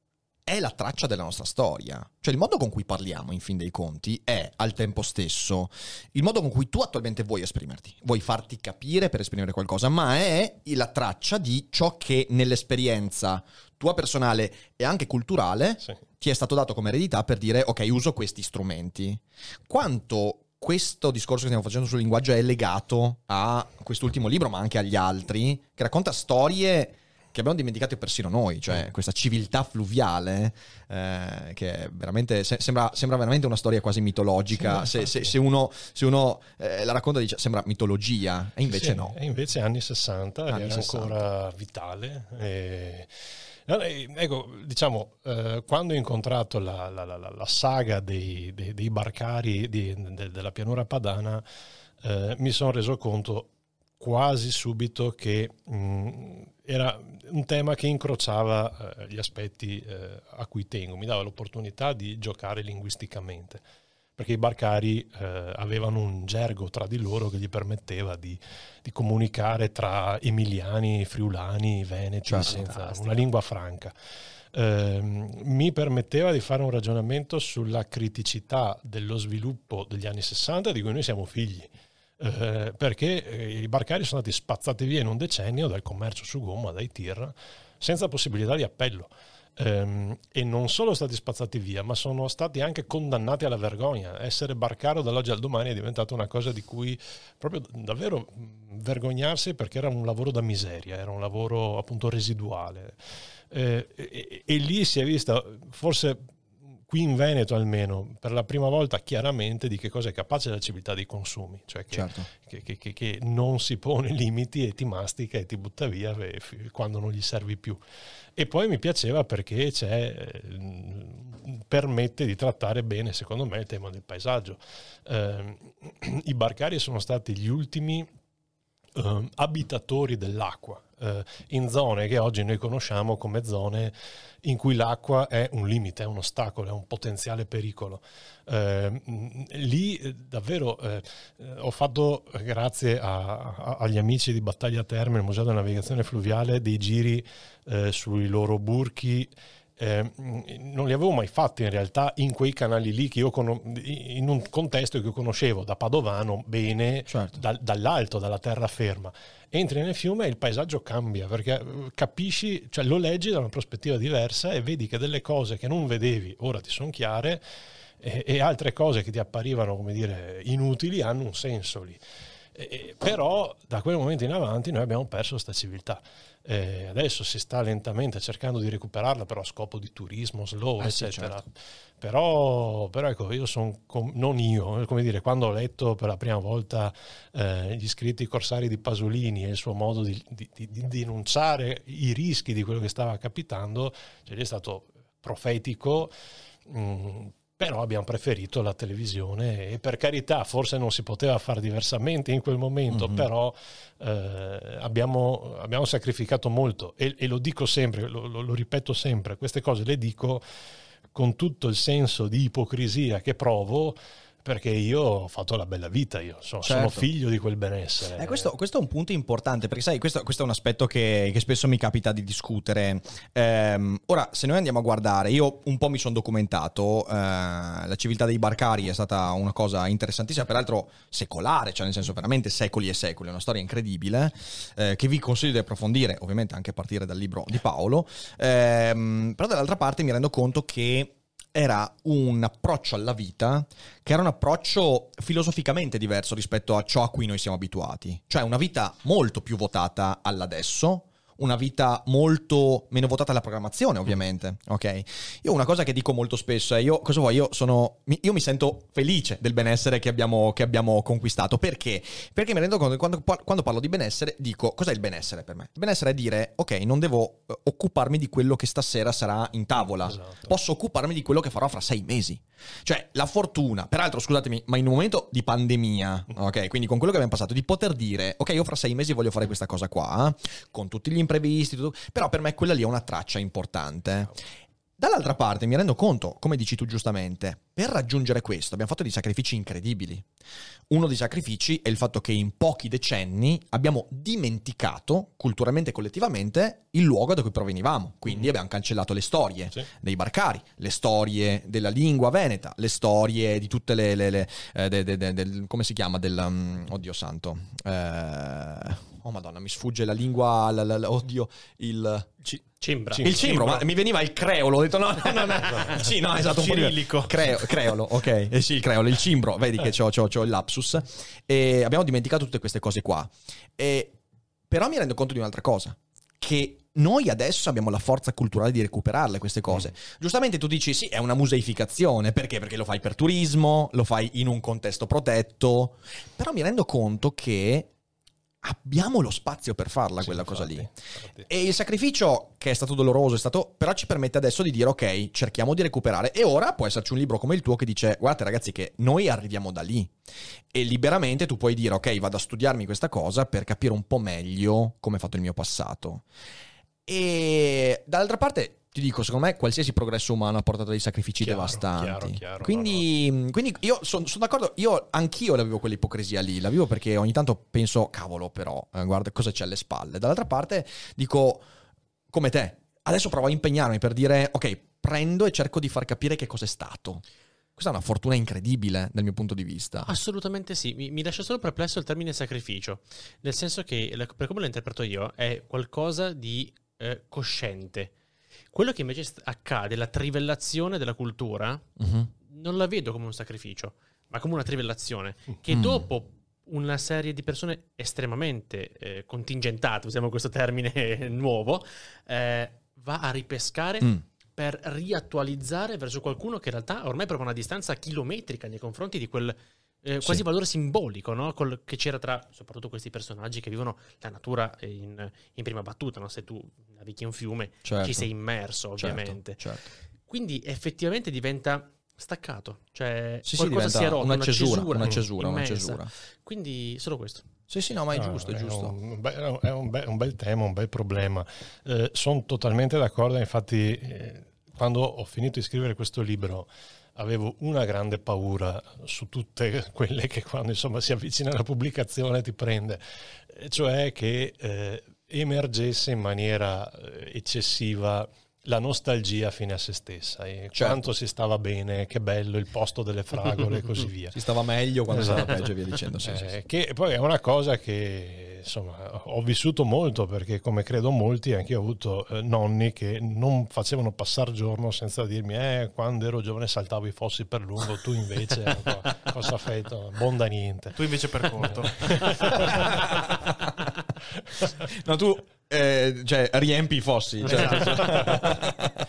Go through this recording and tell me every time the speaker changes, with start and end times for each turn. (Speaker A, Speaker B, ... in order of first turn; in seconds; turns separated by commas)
Speaker A: 0.5-39.2, Speaker B: 38.6-43.1, Speaker A: 40.5-41.2, Speaker B: 43.6-51.4, Speaker B: 52.0-63.6, Speaker B: 64.2-73.9, Speaker A: 72.2-72.6, Speaker C: 72.4-73.3, Speaker B: 74.5-103.0, Speaker B: 103.5-106.3, Speaker B: 106.9-117.8, Speaker A: 111.9-112.3, Speaker B: 118.3-128.1, Speaker B: 128.9-167.4, Speaker A: 157.1-157.4, Speaker B: 168.0-172.0, Speaker B: 172.5-196.1, Speaker A: 180.8-181.4, Speaker B: 196.7-210.4, Speaker A: 202.9-203.3, Speaker B: 211.1-218.5, Speaker A: 216.6-217.1, Speaker A: 218.2-284.4, Speaker B: 270.0-270.5, Speaker A: 285.0-290.3, Speaker A: 290.9-312.3, Speaker C: 312.8-313.4, Speaker D: 313.2-313.8, Speaker A: 313.2-324.1, Speaker D: 316.4-317.4, Speaker A: 324.7-337.9, Speaker A: 338.6-340.9, Speaker B: 340.2-341.5, Speaker A: 341.5-350.1, Speaker A: 350.7-356.2, Speaker A: 357.1-371.6, Speaker B: 361.4-363.1, Speaker A: 372.3-377.2, Speaker A: 377.8-380.1, Speaker C: 380.1-388.1, Speaker C: 388.7-391.8, Speaker A: 392.0-392.3, Speaker C: 392.4-419.6, Speaker A: 395.7-396.1, Speaker A: 417.8-418.3, Speaker A: 419.0-419.9, Speaker C: 420.3-427.4, Speaker A: 423.4-426.1, Speaker A: 427.7-428.9, Speaker B: 428.1-454.4, Speaker A: 450.7-451.1, Speaker A: 454.3-456.5, Speaker B: 455.1-455.7, Speaker B: 456.2-471.0, Speaker D: 470.9-472.9, Speaker B: 471.6-473.1, Speaker A: 474.9-478.9, Speaker C: 477.4-478.6, Speaker D: 477.5-478.4